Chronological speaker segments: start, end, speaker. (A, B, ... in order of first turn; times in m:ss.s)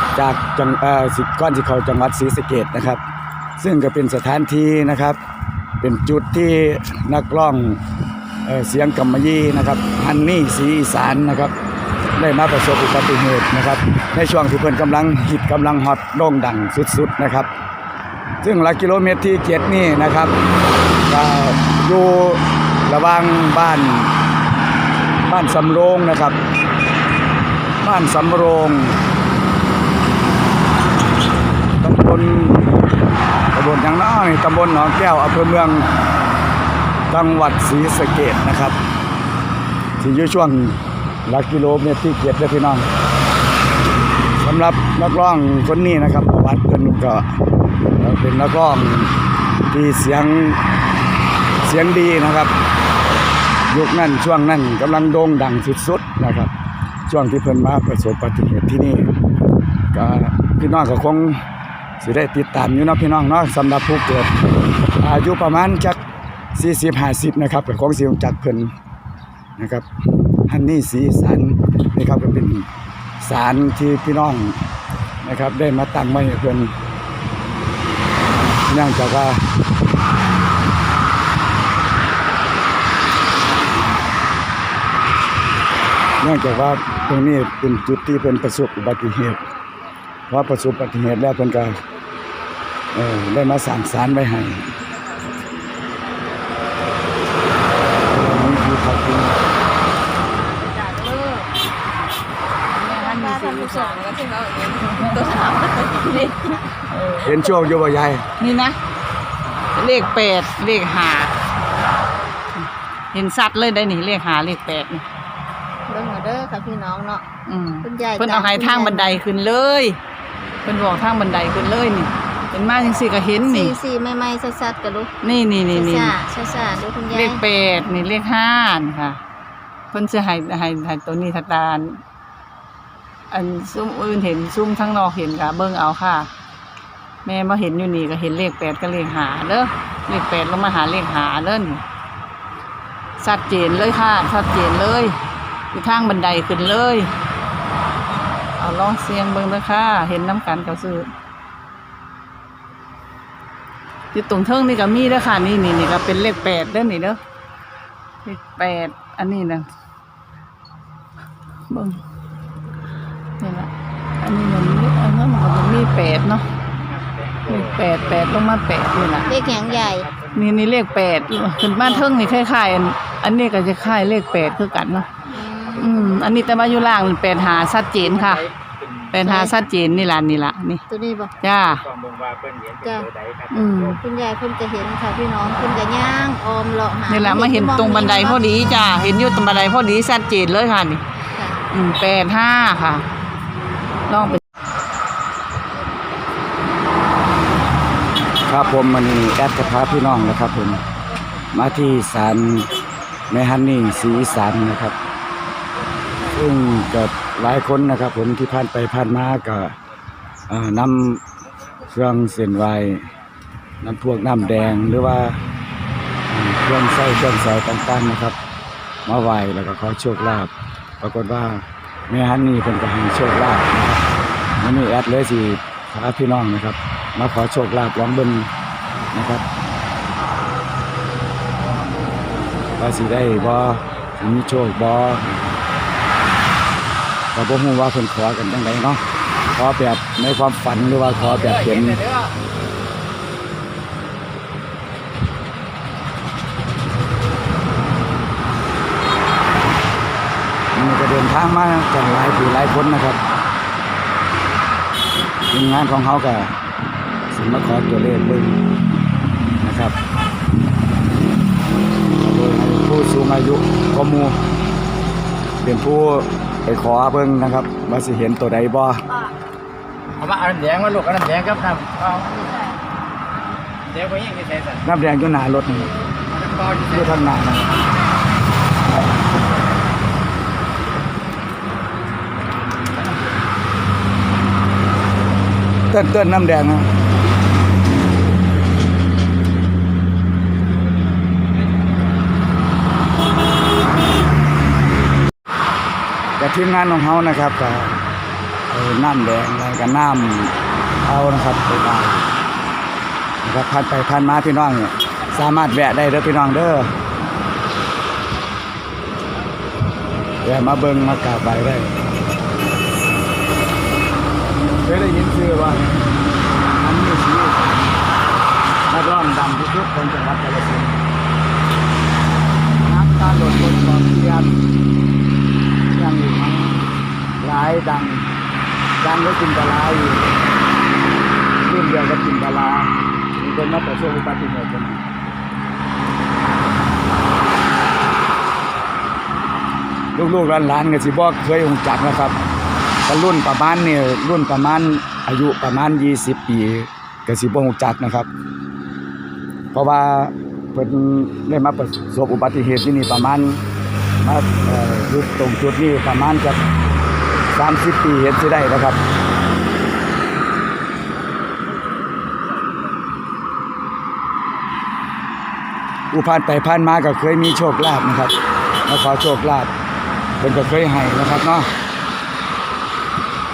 0:00.2-0:03.0 A
0:03.6-0:05.2 A
0:05.8-0:07.8 A
0:08.5-0:11.5 A
0:12.2-0:17.5 A
0:18.4-0:20.3 A
0:21.1-0:24.1 A
0:25.3-0:26.4 A
0:27.8-0:29.0 A
0:31.8-0:32.7 A
0:33.5-0:35.8 A
0:37.1-0:38.8 A
0:40.0-0:42.9 A
0:44.4-0:47.3 A
0:48.0-0:49.1 A
0:49.7-0:50.6 A
0:51.6-0:52.5 A
0:53.7-0:56.5 A
0:57.1-0:59.1 A
0:59.9-1:01.4 A
1:02.0-1:04.3 A
1:05.0-1:06.0 A
1:06.6-1:08.7 A
1:09.6-1:09.8 A
1:10.4-1:12.7 A
1:13.2-1:14.6 A
1:15.2-1:16.7 A
1:18.6-1:19.5 A
1:26.2-1:29.4 A
1:30.3-1:31.8 A
1:32.9-1:34.7 A
1:38.1-1:39.4 A
1:40.8-1:41.5 B
1:42.7-1:47.4 C
1:42.9-1:46.6 B
1:47.2-1:48.2 A
1:48.4-1:48.8 C
1:49.8-1:51.3 C
1:53.1-1:55.0 C
1:55.9-1:57.2 B
1:57.5-2:00.0 C
1:57.8-1:59.2 B
2:00.6-2:03.8 C
2:03.4-2:05.1 B
2:05.2-2:06.2 C
2:05.7-2:07.4 B
2:07.1-2:09.2 C
2:09.9-2:12.0 C
2:13.3-2:16.3 C
2:17.2-2:21.8 C
2:23.2-2:25.2 C
2:25.7-2:27.1 C
2:28.6-2:31.1 C
2:34.1-2:37.2 C
2:38.2-2:39.7 C
2:41.7-2:42.0 C
2:43.4-2:43.7 C
2:44.2-2:46.4 C
2:46.8-3:00.2 D
2:47.5-2:49.4 C
2:49.2-2:50.1 B
2:50.4-2:55.1 C
2:55.3-2:56.1 B
2:55.8-2:58.4 C
2:59.1-3:00.8 C
2:59.2-2:59.7 B
3:00.9-3:01.3 B
3:01.4-3:04.0 D
3:01.4-3:01.8 C
3:02.8-3:03.1 B
3:03.5-3:04.0 C
3:04.0-3:08.4 B
3:07.1-3:11.0 C
3:11.3-3:11.6 B
3:11.7-3:13.1 C
3:14.1-3:14.4 C
3:18.4-3:20.8 A
3:19.5-3:20.2 C
3:21.5-3:22.7 A
3:23.3-3:24.9 A
3:26.3-3:29.7 A
3:30.5-3:31.2 A
3:31.9-3:33.1 A
3:33.8-3:35.4 A
3:34.2-3:34.8 D
3:36.3-3:38.4 A
3:39.1-3:44.0 A
3:44.6-3:48.5 A
3:49.1-3:49.4 A
3:52.8-3:55.4 A
3:53.0-3:54.7 D
3:57.4-3:59.0 A
3:59.5-4:02.0 A
4:01.1-4:02.4 D
4:10.8-4:13.2 A
4:15.5-4:16.5 A
4:17.3-4:18.6 A
4:19.6-4:20.0 A
4:22.2-4:24.4 A
4:25.6-4:29.0 A
4:30.2-4:32.6 D
4:33.9-4:34.9 D
4:34.8-4:35.9 A
4:36.3-4:37.2 D
4:36.9-4:37.7 A
4:45.9-4:46.9 A
4:56.4-4:58.0 A
4:58.7-5:00.5 A
5:01.0-5:02.3 A
5:03.4-5:06.9 A
5:10.4-5:11.9 A
5:14.8-5:15.9 A
5:16.7-5:17.8 A
5:18.9-5:21.0 A
5:22.8-5:24.5 A
5:25.9-5:28.2 A
5:29.0-5:30.4 A
5:31.6-5:35.0 A
5:40.2-5:42.4 A
5:43.0-5:48.3 A
5:49.7-5:53.6 A
5:54.2-5:56.6 A
5:57.5-5:59.0 A
6:06.1-6:08.4 A
6:08.9-6:09.7 A
6:10.4-6:11.7 A